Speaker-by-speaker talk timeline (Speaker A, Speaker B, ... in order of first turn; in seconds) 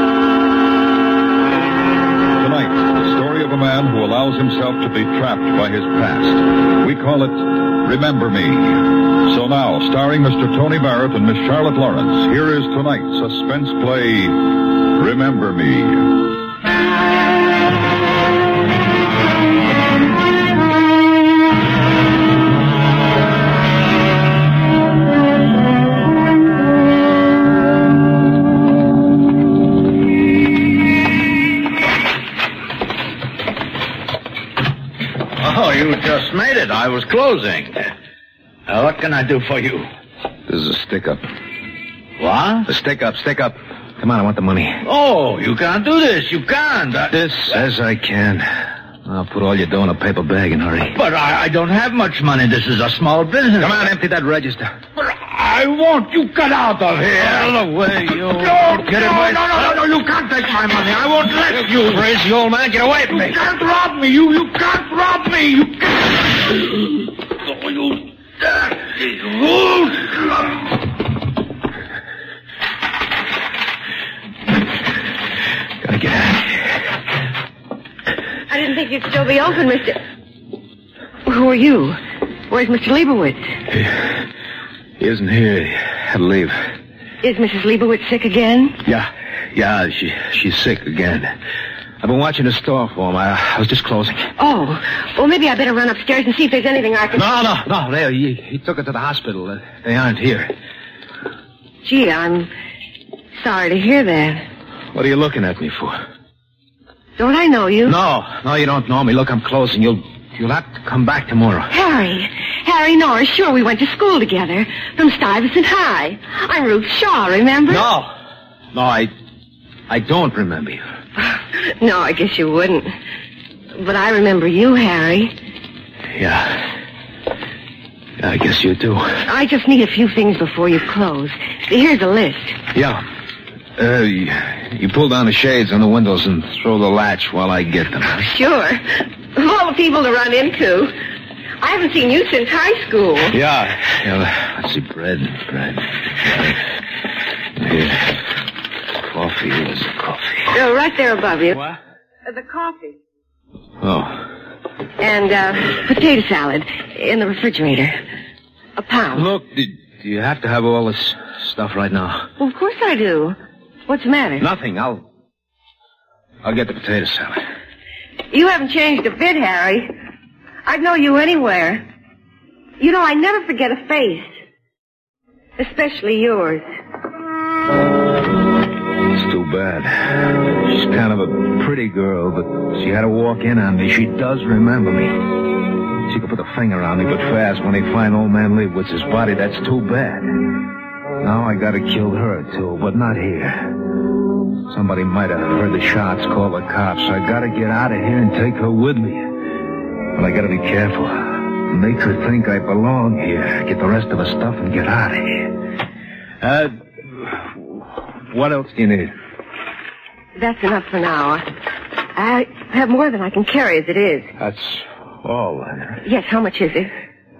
Speaker A: 2.4-16.1
Speaker B: 35.3-37.9, 38.7-39.9, 42.2-42.7, 44.8-47.5, 50.9-53.9, 55.2-65.6, 68.8-70.2
Speaker C: 40.5-41.2, 42.6-44.8, 47.1-51.0, 53.6-54.7, 57.1-59.8, 61.5-63.4, 75.8-76.8, 83.7-84.2, 85.0-86.6, 88.8-91.3, 92.0-94.3, 97.1-100.5, 104.9-106.0, 107.8-111.7, 117.7-118.1, 118.7-119.1, 119.9-120.8, 126.1-126.7, 128.2-129.2, 132.7-133.0, 133.8-138.2, 143.3-146.6, 147.6-148.3, 148.9-150.6, 153.8-154.3, 159.1-162.3, 164.4-165.0, 166.4-167.4, 179.1-185.2, 186.0-190.3, 191.2-193.8, 194.7-199.4, 200.1-205.5, 206.4-209.1, 214.4-216.0
Speaker D: 78.5-80.0, 81.2-83.4, 87.2-88.8, 94.4-97.5, 101.8-102.5, 103.4-104.5, 107.2-108.0, 111.7-117.8, 121.2-122.9, 123.7-125.3, 129.2-132.6, 138.1-140.9, 141.6-143.3, 150.5-151.6, 152.2-152.9, 155.0-158.0, 158.8-159.3, 162.4-163.4, 163.9-164.5, 168.3-169.9, 170.7-171.8, 172.8-174.2, 175.6-176.6, 210.3-211.4, 212.1-214.3, 216.0-216.9